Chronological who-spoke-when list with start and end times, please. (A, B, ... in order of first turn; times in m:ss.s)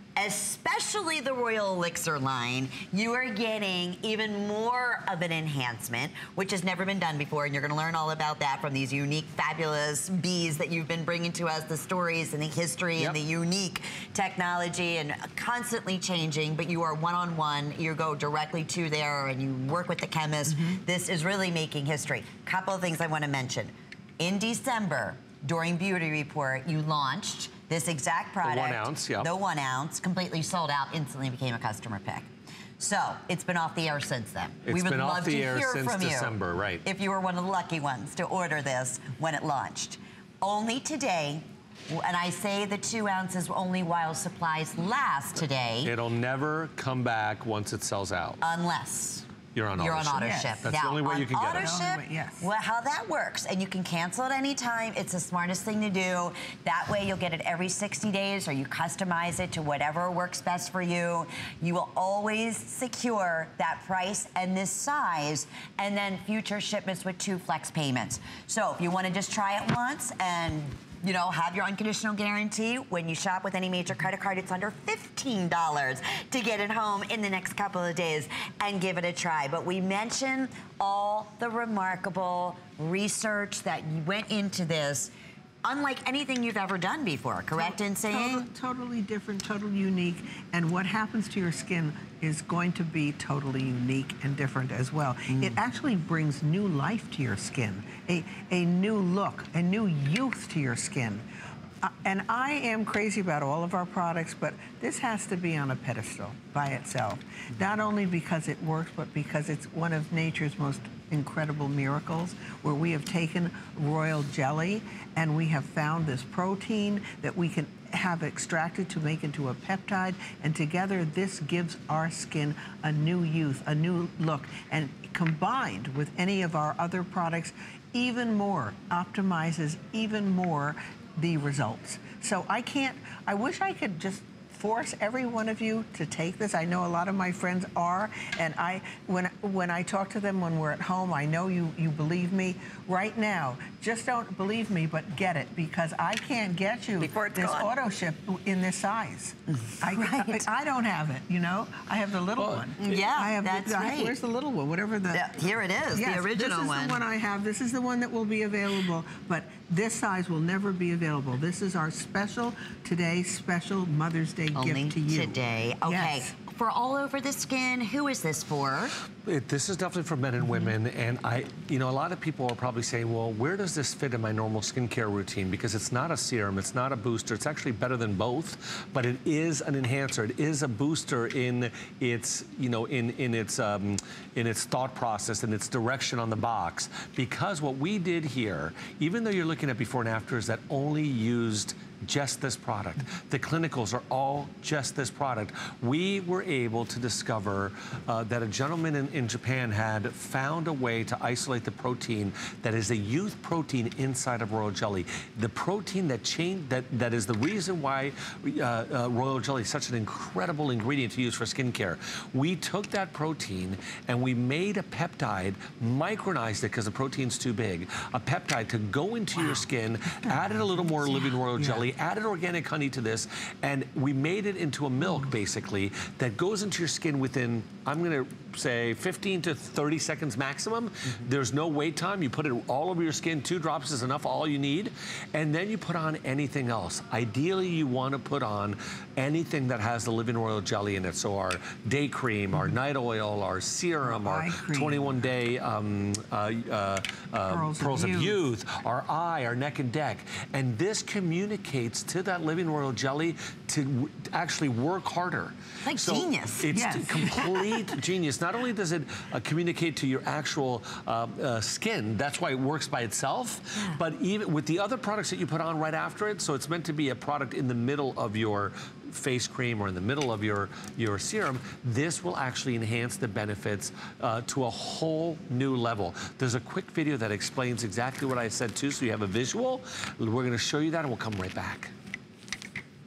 0:00.2-0:45.9 A
0:28.4-0:29.3 B
0:34.7-0:36.8 B
0:45.8-0:48.4 B
0:48.4-1:25.1 A
0:49.5-0:51.8 B
0:50.2-0:50.7 C
0:51.6-0:52.5 C
1:25.6-1:28.5 A
1:27.5-1:41.2 C
1:35.3-1:35.6 A
1:41.8-2:35.3 C
2:27.0-2:27.7 A
2:29.5-2:30.5 A
2:32.4-2:32.7 B
2:32.8-2:34.2 A
2:35.1-2:37.0 A
2:35.9-2:46.3 C
2:44.6-2:49.0 A
2:49.2-4:41.9 B
3:41.6-3:41.8 C
4:04.0-4:05.2 C
4:07.5-4:08.4 C
4:15.8-4:16.8 A
4:16.7-4:17.7 C